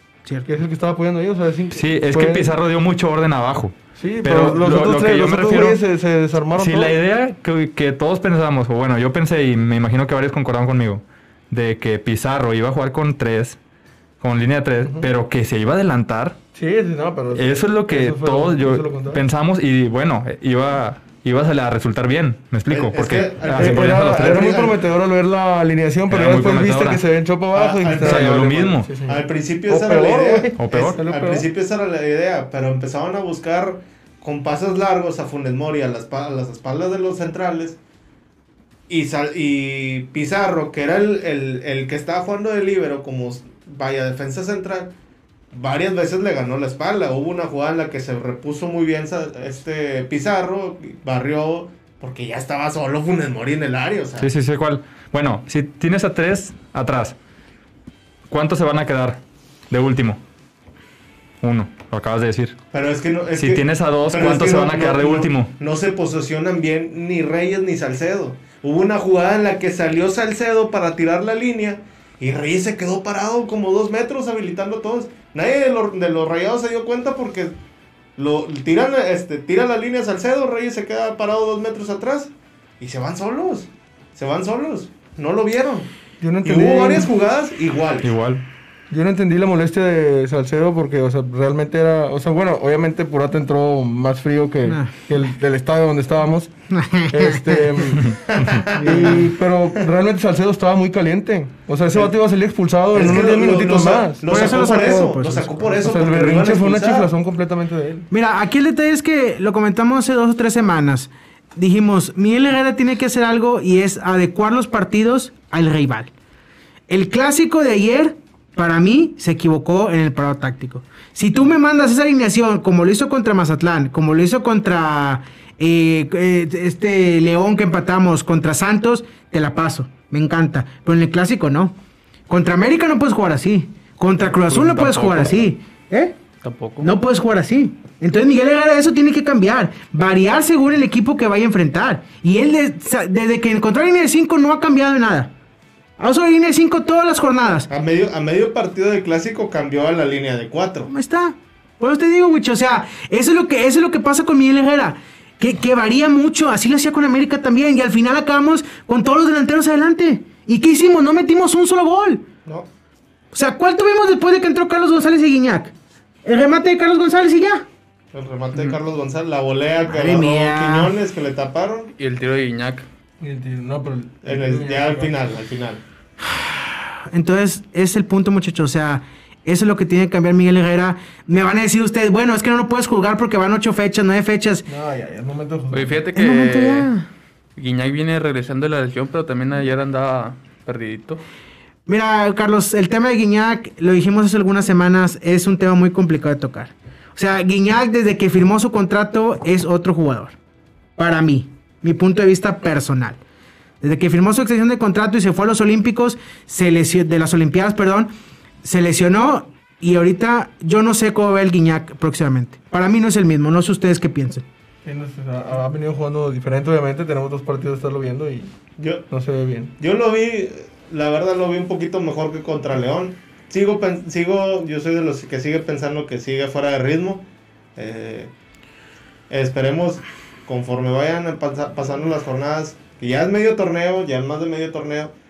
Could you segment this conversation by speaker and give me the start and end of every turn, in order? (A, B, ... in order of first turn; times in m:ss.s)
0:00.4-0:02.5 A
0:01.7-0:05.8 B
0:04.0-0:07.0 A
0:06.6-0:13.6 B
0:14.2-0:16.4 B
0:16.5-0:19.2 A
0:17.4-0:24.5 B
0:22.7-0:24.8 C
0:23.5-0:31.5 A
0:26.1-0:27.0 B
0:27.5-0:37.8 C
0:27.9-0:28.9 B
0:30.6-0:31.0 B
0:38.9-0:44.9 C
0:45.5-0:54.3 C
0:54.2-0:57.2 B
0:58.3-1:00.2 B
1:01.4-1:02.5 B
1:02.7-1:17.5 C
1:03.4-1:05.5 B
1:18.2-1:25.9 C
1:26.2-1:27.1 A
1:26.4-1:28.2 C
1:28.0-1:28.4 B
1:28.9-1:36.5 A
1:34.7-1:34.9 D
1:36.7-1:37.8 D
1:37.1-1:44.5 A
1:38.3-1:39.3 C
1:42.9-1:47.1 C
1:44.3-1:45.7 D
1:45.8-1:48.1 A
1:48.1-1:56.1 D
1:56.9-2:11.7 D
2:12.3-2:16.2 D
2:14.4-2:15.4 E
2:16.4-2:16.9 E
2:16.8-2:25.3 D
2:26.0-2:27.7 D
2:27.7-2:30.9 C
2:30.9-2:42.2 D
2:43.3-2:45.7 D
2:46.2-2:47.6 D
2:48.1-2:51.9 C
2:49.9-2:50.9 D
2:52.0-2:52.9 E
2:53.2-2:55.2 A
2:54.2-2:55.8 C
2:56.4-3:04.6 D
3:04.7-3:06.0 A
3:05.7-3:06.9 E
3:06.2-3:07.0 D
3:07.6-3:11.2 E
3:11.9-3:20.4 D
3:21.0-3:23.2 D
3:23.8-3:28.1 D
3:28.6-3:34.4 D
3:34.8-3:38.5 A
3:38.8-3:39.0 C
3:39.1-3:39.7 A
3:39.8-3:47.2 C
3:47.8-3:48.3 C
3:49.3-3:55.1 C